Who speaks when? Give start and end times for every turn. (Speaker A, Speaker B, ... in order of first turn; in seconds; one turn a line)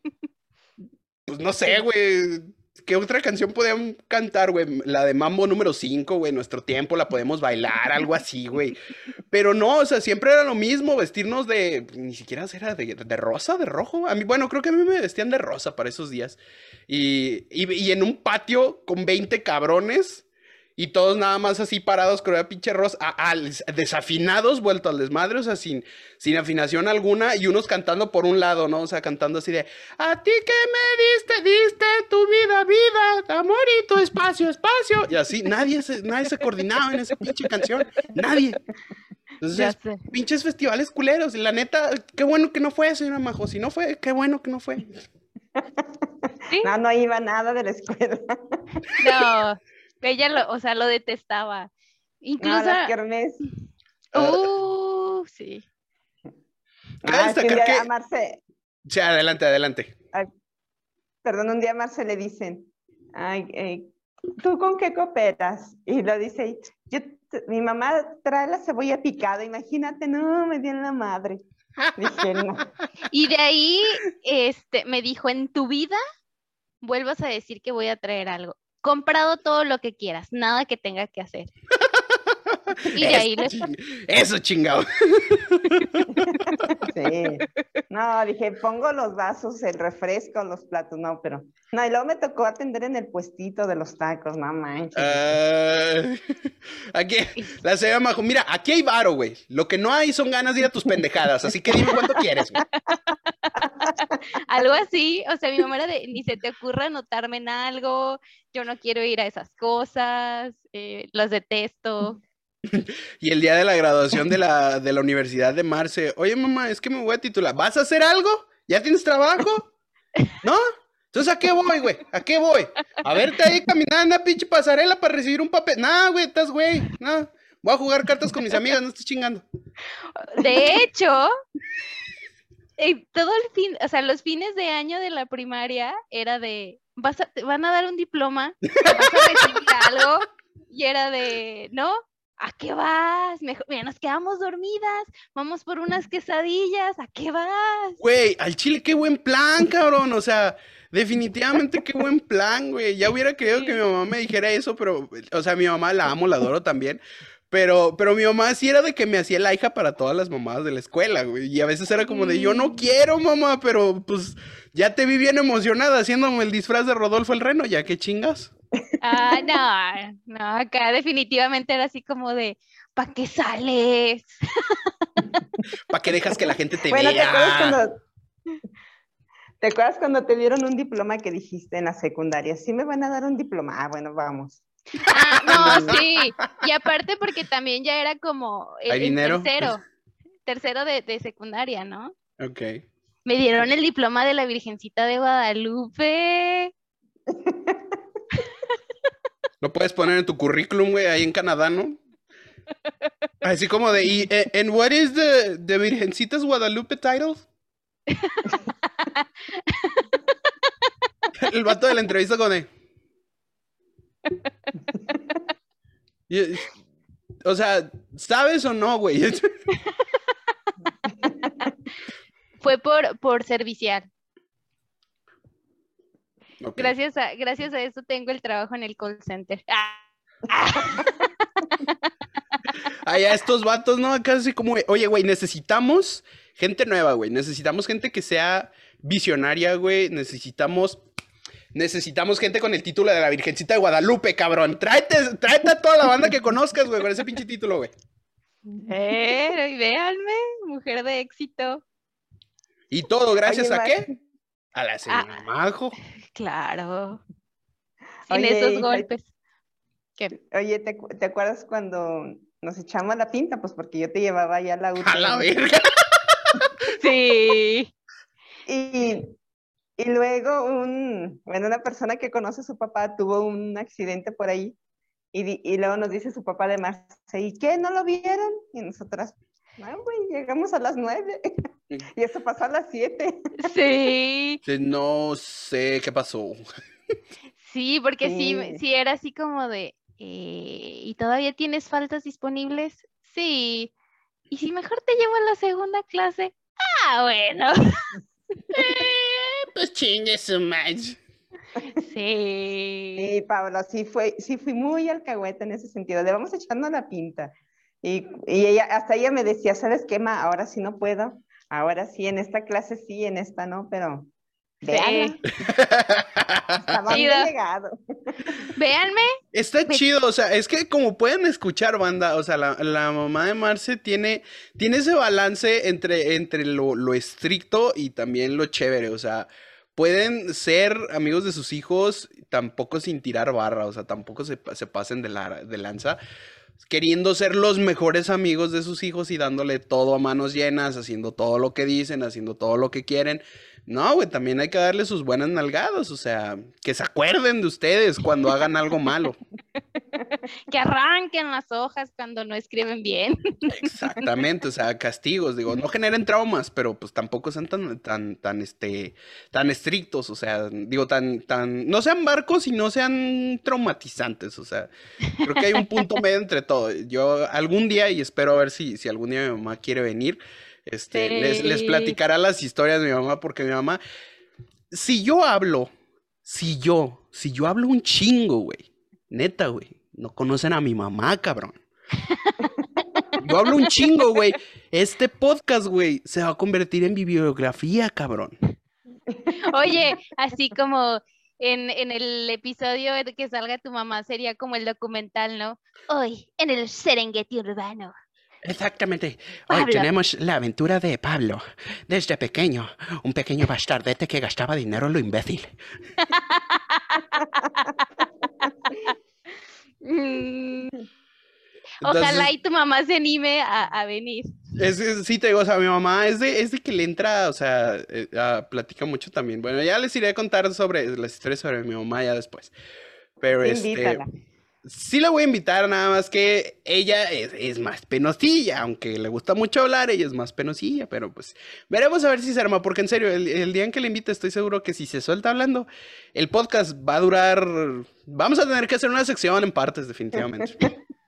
Speaker A: 1.3-20.3
Speaker A: 20.8-38.6
Speaker A: 39.4-45.0
Speaker B: 39.5-40.0
Speaker C: 45.5-49.1
Speaker B: 49.0-51.7
Speaker B: 52.2-52.9
Speaker C: 52.4-53.4
Speaker A: 54.1-54.5
Speaker B: 54.1-55.6
Speaker A: 57.0-57.9
Speaker C: 57.0-58.4
Speaker A: 58.9-59.9
Speaker C: 61.2-63.9
Speaker C: 64.4-71.4
Speaker C: 72.0-72.7
Speaker B: 73.1-76.0
Speaker B: 76.8-81.5
Speaker A: 81.9-86.9
Speaker B: 82.9-83.5
Speaker C: 86.9-95.2
Speaker A: 95.0-96.2
Speaker A: 96.9-102.6
Speaker B: 102.6-103.7
Speaker C: 103.6-104.1
Speaker B: 104.3-112.2
Speaker A: 112.7-119.7
Speaker A: 120.4-129.4
Speaker B: 130.2-131.3
Speaker B: 132.8-148.0
Speaker A: 138.7-139.7
Speaker A: 148.0-168.5
Speaker B: 153.5-153.8
Speaker B: 162.0-162.8
Speaker B: 169.0-175.3
Speaker A: 175.9-177.8
Speaker C: 176.9-178.0
Speaker C: 179.6-184.6
Speaker A: 185.0-186.6
Speaker B: 185.0-189.8
Speaker C: 185.5-186.0
Speaker A: 188.9-189.7
Speaker B: 190.5-192.1
Speaker A: 192.4-192.8
Speaker B: 193.2-196.7
Speaker C: 197.3-198.0
Speaker A: 199.6-202.0
Speaker A: 203.4-207.5
Speaker B: 208.1-210.1
Speaker A: 211.3-212.7
Speaker A: 216.3-216.8
Speaker A: 217.4-219.5
Speaker B: 222.6-224.1
Speaker A: 226.6-226.9
Speaker B: 226.8-231.2
Speaker C: 230.8-231.1
Speaker A: 232.8-241.0
Speaker A: 241.7-247.9
Speaker C: 248.7-248.9
Speaker B: 248.9-251.8
Speaker A: 252.9-254.1
Speaker C: 253.4-254.2
Speaker A: 254.8-256.0
Speaker B: 256.3-257.2
Speaker C: 258.3-259.1
Speaker B: 258.3-259.2
Speaker C: 260.4-265.5
Speaker A: 265.0-266.7
Speaker B: 266.9-267.9
Speaker C: 268.7-269.3
Speaker C: 270.0-274.8
Speaker C: 275.3-281.6
Speaker C: 282.1-283.7
Speaker B: 283.6-284.6
Speaker A: 284.7-286.6
Speaker B: 287.6-293.9
Speaker C: 288.2-288.8
Speaker B: 294.5-298.1
Speaker B: 298.7-299.1
Speaker A: 298.7-301.2
Speaker B: 301.9-303.3
Speaker C: 303.2-314.3
Speaker C: 314.8-315.4
Speaker B: 314.9-315.4
Speaker A: 315.6-316.9
Speaker C: 316.8-318.6
Speaker B: 317.1-317.5
Speaker B: 318.7-319.4
Speaker A: 319.5-336.2
Speaker A: 336.8-349.4
Speaker B: 350.2-353.9
Speaker A: 353.7-374.0
Speaker B: 365.7-366.2
Speaker B: 371.1-372.2
Speaker A: 374.9-375.9
Speaker A: 376.4-381.8
Speaker B: 382.3-384.2
Speaker A: 383.4-388.6
Speaker C: 389.3-390.0
Speaker B: 389.6-398.1
Speaker A: 398.6-405.7
Speaker B: 399.7-400.1
Speaker B: 406.2-408.1
Speaker B: 408.6-409.2
Speaker B: 410.0-411.0
Speaker A: 412.0-412.5
Speaker B: 412.0-414.5
Speaker A: 414.8-422.7
Speaker A: 423.4-424.2
Speaker C: 423.6-424.3
Speaker A: 424.9-440.9